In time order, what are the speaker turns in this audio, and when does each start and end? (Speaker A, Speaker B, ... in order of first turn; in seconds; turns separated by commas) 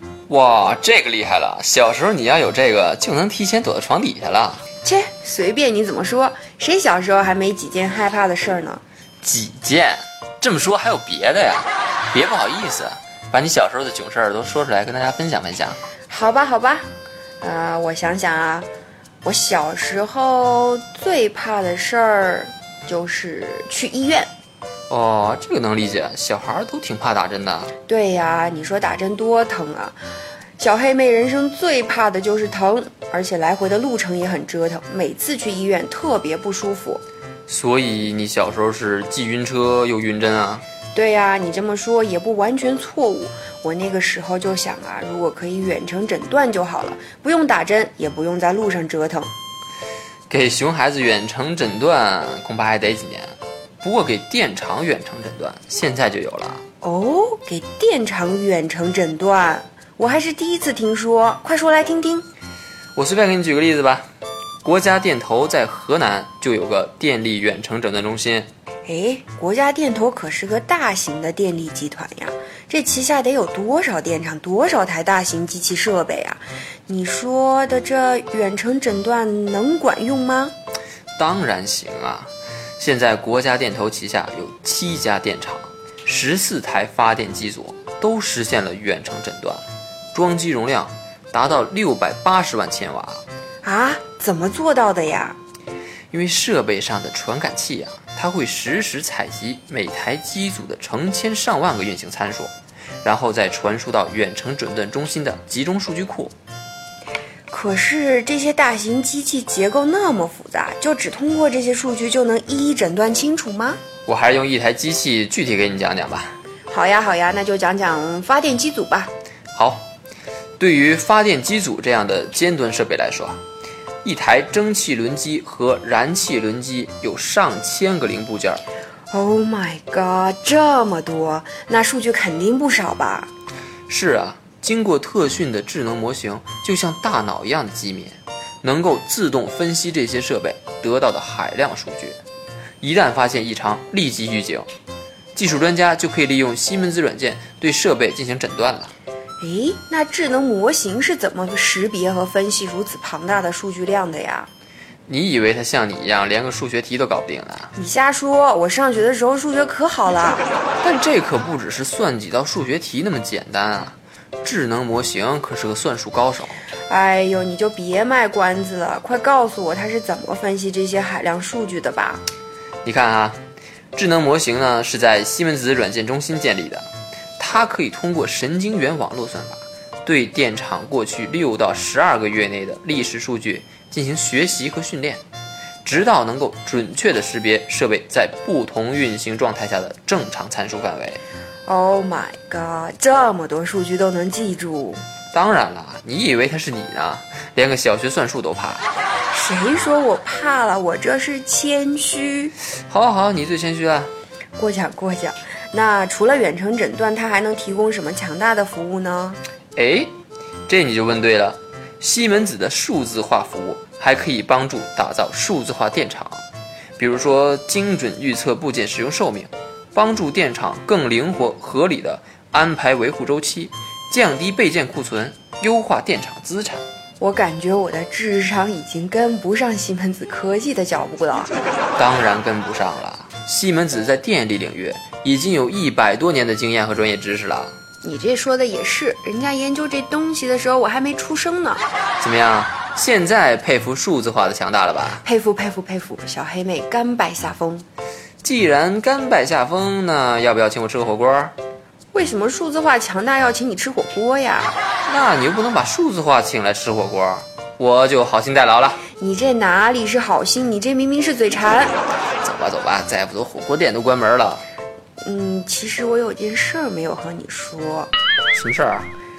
Speaker A: 0.3-4.6, Speaker B: 4.8-8.8, Speaker A: 9.2-15.8, Speaker B: 16.1-16.9, Speaker B: 17.4-18.7, Speaker B: 19.2-24.3, Speaker A: 24.9-27.7, Speaker B: 27.9-29.9, Speaker B: 30.6-37.0, Speaker A: 37.5-40.6, Speaker B: 40.9-49.3, Speaker A: 50.3-56.6, Speaker B: 56.8-62.2, Speaker A: 63.0-64.0, Speaker A: 64.6-68.5, Speaker B: 68.9-80.5, Speaker A: 81.2-89.6, Speaker A: 90.1-93.2, Speaker B: 93.6-95.4, Speaker A: 96.1-102.5, Speaker A: 103.0-106.3, Speaker B: 107.5-113.8, Speaker A: 114.0-116.3, Speaker B: 116.7-119.1, Speaker A: 119.5-119.9, Speaker A: 120.6-123.4, Speaker A: 124.0-128.6, Speaker B: 129.1-133.3, Speaker A: 133.9-142.2, Speaker A: 142.8-144.7, Speaker A: 145.3-148.9, Speaker B: 149.4-154.5, Speaker A: 155.1-157.7, Speaker B: 157.8-160.5, Speaker A: 160.8-166.6, Speaker B: 166.9-172.2, Speaker A: 172.8-173.4, Speaker A: 173.9-176.8, Speaker A: 177.4-185.2, Speaker A: 185.8-191.2, Speaker B: 191.7-195.0, Speaker A: 195.3-198.8, Speaker B: 199.3-202.5, Speaker A: 202.9-204.1, Speaker B: 204.6-209.4, Speaker A: 209.8-210.1, Speaker A: 210.7-216.4, Speaker A: 217.0-226.8, Speaker B: 227.2-231.5, Speaker A: 231.9-237.7, Speaker B: 238.0-241.8, Speaker A: 242.2-245.2, Speaker B: 245.2-247.8, Speaker A: 248.4-251.5, Speaker B: 252.1-254.8, Speaker A: 255.1-259.0, Speaker B: 259.2-261.9, Speaker A: 262.4-264.6, Speaker B: 265.2-268.1, Speaker A: 268.5-269.1